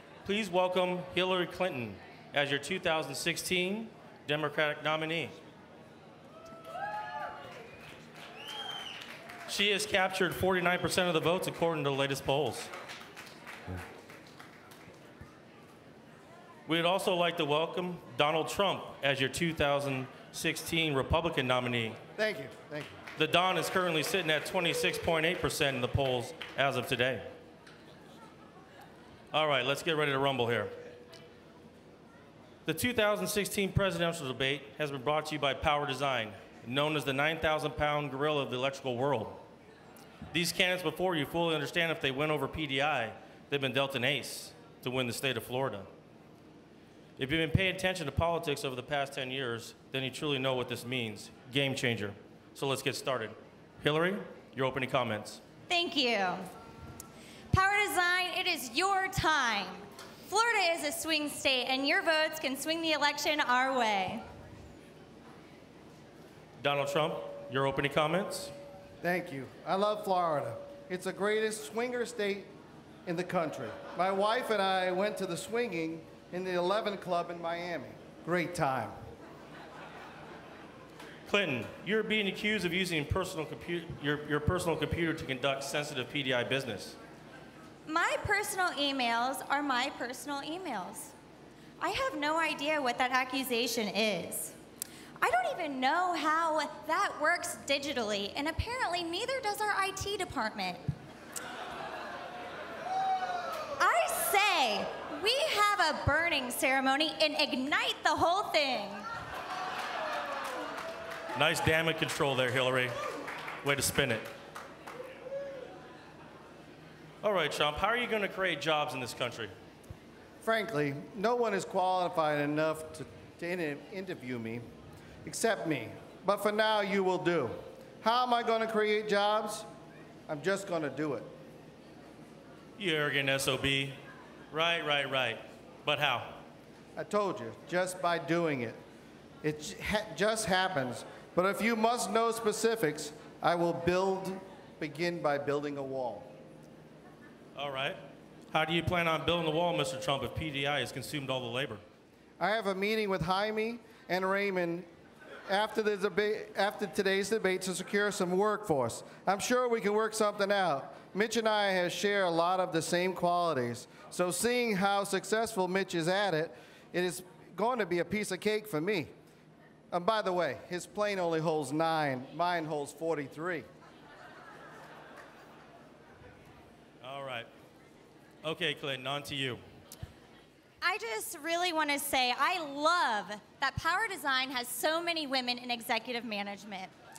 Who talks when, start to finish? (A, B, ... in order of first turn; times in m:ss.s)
0:00.2-0:05.3 A
0:09.5-0:12.7 A
0:16.7-0:22.0 A
0:22.2-0:23.0 B
0:23.2-0:27.3 A
0:29.3-0:30.7 A
0:32.6-0:39.4 A
0:40.3-0:45.9 A
0:47.2-0:55.4 A
0:55.7-0:56.4 C
0:57.5-1:04.2 C
1:06.6-1:08.5 A
1:09.0-1:12.5 B
1:13.0-1:18.9 B
1:21.3-1:27.0 A
1:27.8-1:31.1 C
1:31.8-1:34.5 C
1:35.2-1:40.9 C
1:43.8-1:49.1 C
1:51.3-1:52.9 A
1:53.6-1:54.2 A
1:57.2-1:59.5 A
2:00.4-2:04.6 B
2:05.2-2:09.7 B
2:10.3-2:11.3 B
2:12.8-2:14.0 A
2:14.5-2:16.4 A
2:17.0-2:18.8 B
2:19.4-2:26.3 B
2:27.5-2:28.0 A
2:28.5-2:31.8 A
2:32.4-2:34.9 B
2:35.5-2:49.1 B
2:49.9-2:53.6 B
2:57.0-2:57.5 A
2:58.4-2:59.6 A
3:00.8-3:06.9 C